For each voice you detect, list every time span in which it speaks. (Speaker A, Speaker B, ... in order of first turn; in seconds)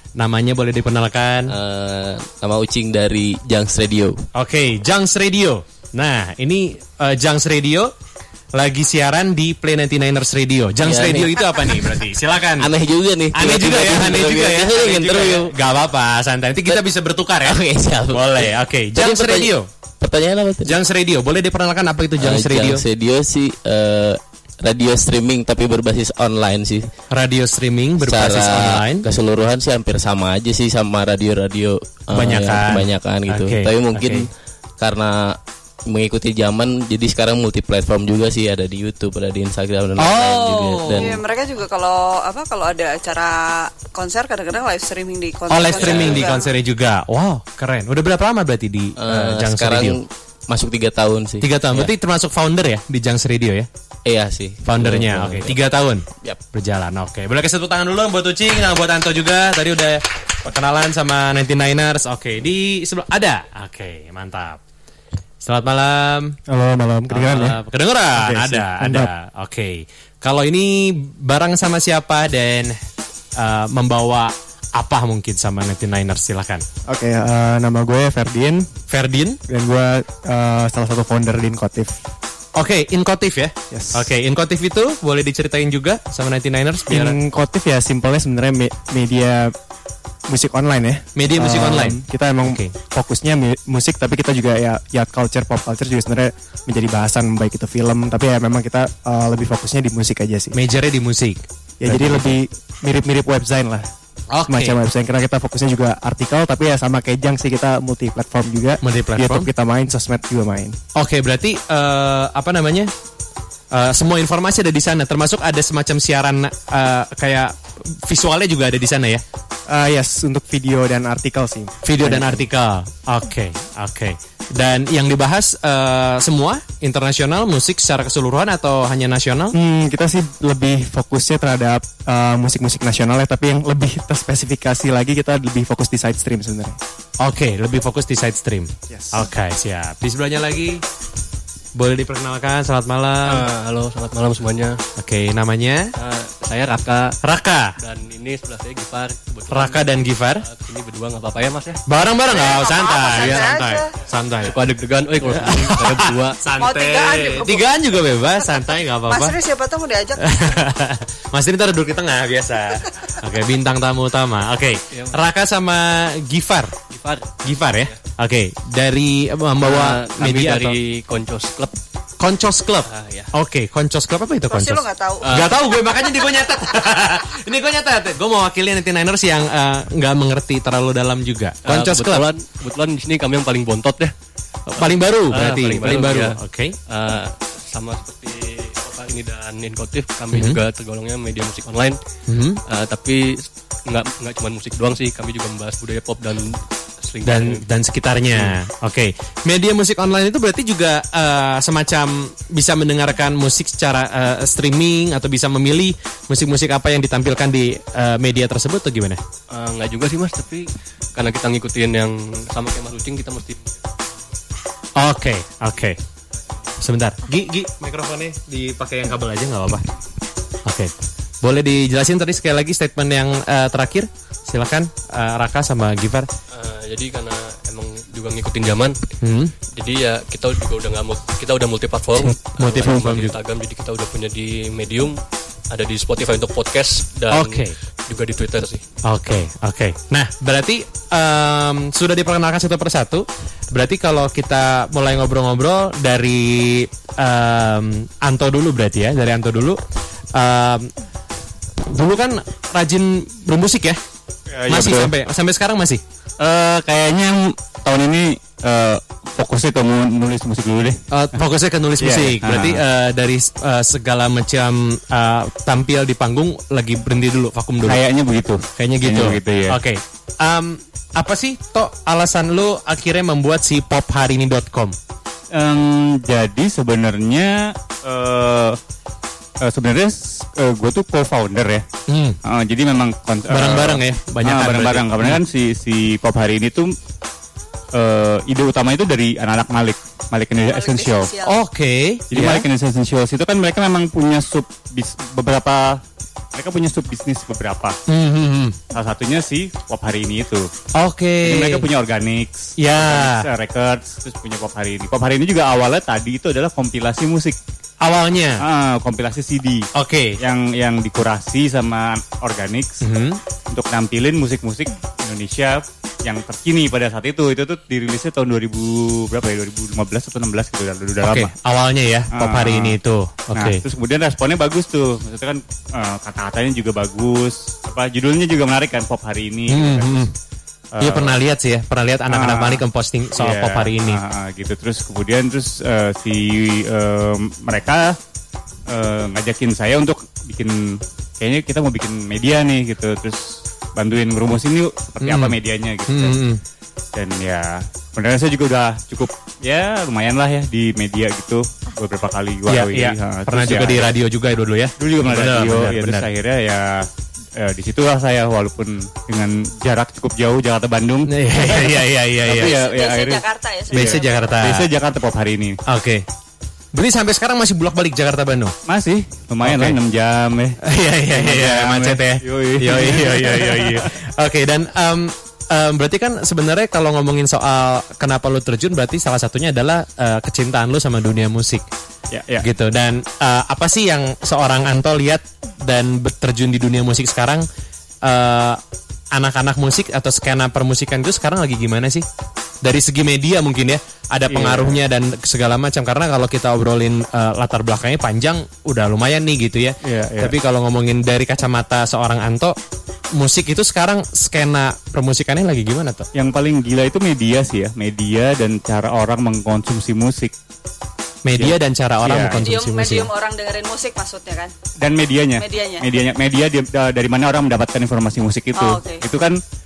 Speaker A: 0.2-1.5, 4.3-7.9, 8.5-12.7, 13.3-17.6, 18.1-19.7, 20.6-22.8, 27.1-29.1, 32.1-34.3, 40.0-41.2, 45.5-50.0, 51.4-53.7, 54.6-64.6, 65.4-66.3, 67.1-72.7, 73.4-76.6, 78.9-79.4, 82.5-87.2, 91.2-92.7, 100.5-102.3, 104.3-104.8, 108.8-109.5, 111.0-112.9, 113.7-117.5, 118.0-119.2, 121.8-129.5, 137.2-140.8, 141.7-143.5, 145.0-145.9, 147.2-147.8, 149.5-150.4, 151.9-154.6, 155.2-159.3, 160.2-166.7, 167.4-170.8, 172.2-182.2, 184.7-186.8, 190.3-190.6, 192.3-192.6, 197.2-209.2, 215.0-216.0, 216.8-219.8, 220.7-226.3, 229.2-229.5, 232.2-233.3, 237.3-237.7, 239.0-249.8, 250.3-250.9, 251.9-254.0, 254.7-256.0, 261.1-268.0, 268.8-274.9, 282.1-282.4, 283.5-285.4, 291.4-292.6, 298.1-298.8, 301.0-301.9, 302.8-303.5, 308.0-308.6, 309.9-310.4, 313.0-313.4, 321.2-323.8, 329.7-330.3, 331.0-334.2, 345.2-346.6, 352.7-356.3, 361.3-362.7, 363.9-364.9, 365.9-366.2, 366.9-368.7, 369.6-370.0, 370.8-381.9, 382.6-387.6, 388.2-388.8, 389.3-392.2, 392.8-402.7, 403.4-406.3, 411.4-413.3
Speaker B: 1.5-4.2, 10.8-11.4, 12.6-15.5, 17.4-20.8, 22.2-26.9, 28.0-34.3, 34.8-41.2, 45.8-46.1, 49.0-51.9, 54.0-55.6
Speaker C: 40.9-46.5, 152.3-153.9, 156.6-157.7, 158.4-160.5, 174.5-175.3, 290.6-291.6, 362.5-364.5, 412.6-414.7, 415.6-416.1, 418.8-419.2
Speaker D: 66.5-67.6, 68.1-69.1, 76.9-78.7, 79.5-81.9, 83.7-84.1, 86.9-89.5, 90.3-100.5, 101.8-103.8, 104.5-110.8, 119.7-122.4, 129.5-136.8, 138.9-139.3
Speaker E: 143.2-144.8, 145.9-147.2, 147.8-151.8, 154.4-156.4, 166.9-167.9, 169.6-171.7, 172.8-173.3, 175.2-175.5, 181.7-184.1, 184.8-192.0, 192.7-197.6, 209.5-213.9, 226.5-228.9, 229.7-235.2, 235.7-238.8
Speaker F: 254.5-255.1, 256.4-261.4, 262.0-262.8, 267.8-269.8, 275.5-277.5, 278.0-278.8, 279.6-281.8, 282.4-286.9, 287.9-291.3, 292.3-296.0, 296.5-297.9, 298.9-300.7, 301.4-307.6, 308.6-309.9, 310.4-313.0, 313.7-321.5, 322.3-323.0, 323.5-330.3, 330.9-331.4, 332.3-332.8, 333.3-338.1, 338.9-346.4, 347.1-354.1, 355.0-357.1, 357.6-365.8, 368.9-370.8, 371.3-374.1, 382.3-382.7, 394.5-395.0, 400.0-400.5, 406.3-410.5, 411.6-412.7, 415.0-419.6